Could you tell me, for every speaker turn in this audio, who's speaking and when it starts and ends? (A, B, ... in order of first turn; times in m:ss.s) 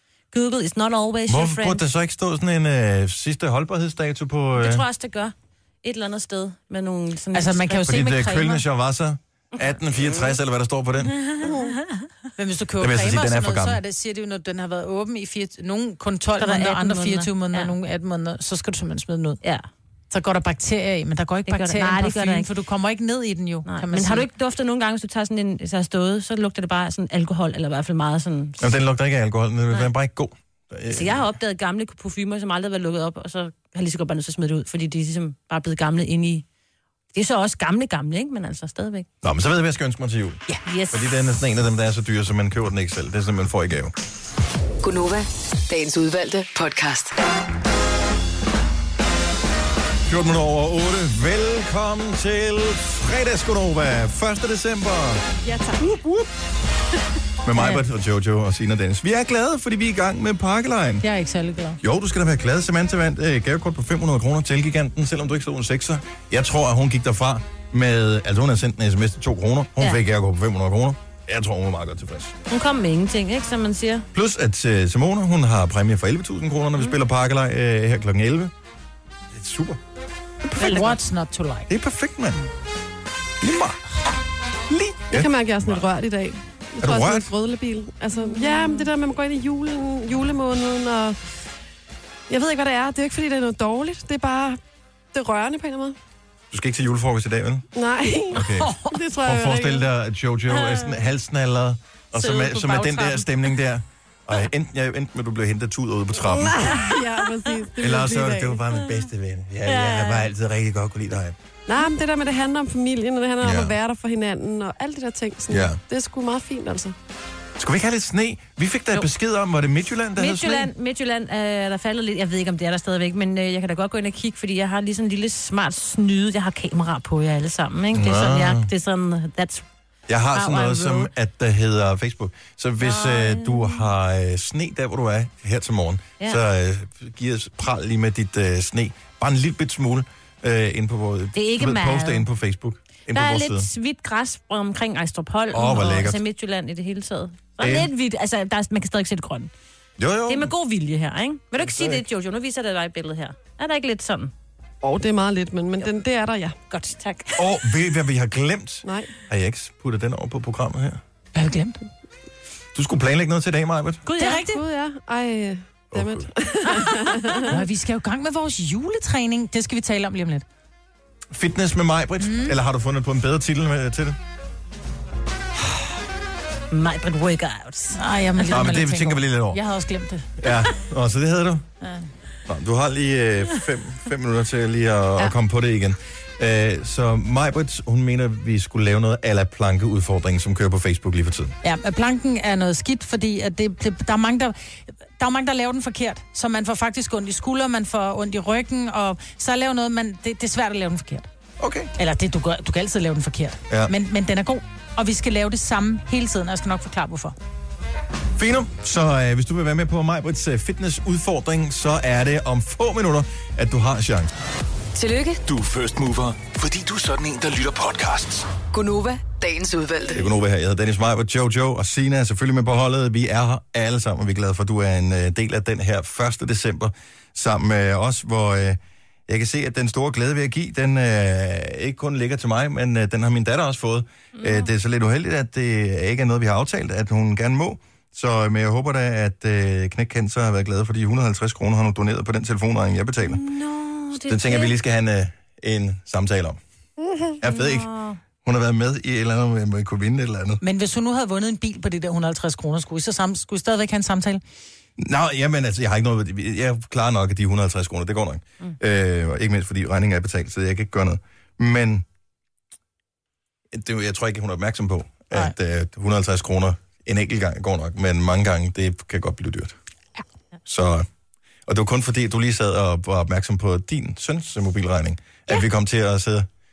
0:00.3-0:01.8 A
0:01.3-0:04.8 B
0:04.6-0:08.1 A
0:07.3-0:08.6 C
0:07.8-0:11.5 B
0:09.6-0:10.3 A
0:11.1-0:12.0 A
0:11.4-0:11.7 D
0:12.4-0:19.4 C
0:12.8-0:13.8 B
0:16.4-0:17.7 A
0:19.4-0:19.7 A
0:20.1-0:24.3 C
0:21.5-0:22.5 A
0:23.7-0:28.8 A
0:28.6-0:31.2 B
0:30.9-0:36.4 A
0:37.1-0:39.1 A
0:39.2-0:40.4 B
0:40.5-0:41.1 A
0:40.9-0:43.9 B
0:44.8-0:47.2 E
0:50.1-0:55.2 B
0:55.4-0:55.8 C
0:55.8-0:56.3 B
0:57.4-1:01.0 B
1:01.0-1:01.8 C
1:01.8-1:12.3 B
1:12.5-1:14.1 A
1:14.1-1:18.5 B
1:19.3-1:19.8 B
1:20.4-1:20.9 B
1:20.6-1:21.7 C
1:20.6-1:20.9 A
1:21.7-1:22.4 B
1:23.4-1:23.8 B
1:24.7-1:25.8 B
1:25.1-1:31.2 D
1:26.8-1:27.3 B
1:32.3-1:34.6 D
1:35.1-1:36.0 D
1:36.5-1:37.7 B
1:37.7-1:39.9 D
1:38.3-1:47.0 B
1:42.2-1:43.3 C
1:46.2-1:48.6 D
1:47.8-1:51.4 B
1:49.6-1:50.3 A
1:51.7-1:57.0 D
1:53.4-1:53.7 B
1:55.5-1:55.8 B
1:57.6-2:00.7 B
2:00.2-2:09.6 A
2:07.9-2:08.7 B
2:10.1-2:23.7 B
2:10.3-2:11.1 A
2:12.8-2:13.9 A
2:21.3-2:22.3 A
2:23.1-2:29.5 A
2:25.5-2:26.2 B
2:27.6-2:27.9 B
2:30.0-2:30.5 B
2:30.3-2:34.3 A
2:34.8-2:36.6 D
2:36.7-2:37.8 A
2:37.4-2:41.0 B
2:38.8-2:39.1 D
2:41.3-2:41.8 C
2:42.7-2:44.0 B
2:44.0-2:44.6 A
2:44.2-2:44.6 C
2:44.2-2:47.6 D
2:45.9-2:46.3 B
2:47.4-2:50.4 C
2:51.3-2:54.2 B
2:52.2-2:52.6 C
2:56.7-2:58.0 A
2:58.0-3:00.3 C
2:58.5-2:59.6 B
3:00.4-3:01.6 B
3:02.5-3:11.6 B
3:11.6-3:14.6 C
3:15.2-3:21.3 C
3:21.6-3:21.9 B
3:22.0-3:27.4 C
3:28.4-3:34.3 B
3:34.9-3:35.4 E
3:35.4-3:38.5 F
3:38.7-3:40.3 E
3:40.1-4:03.4 B
3:54.4-3:54.7 A
4:03.2-4:04.8 A
4:04.1-4:06.6 B
4:07.0-4:07.3 D
4:07.4-4:07.9 B
4:07.4-4:08.2 A
4:08.4-4:10.6 B
4:10.6-4:14.4 C
4:15.0-4:22.0 B
4:23.7-4:29.8 B
4:30.6-4:31.1 B
4:31.7-4:36.5 B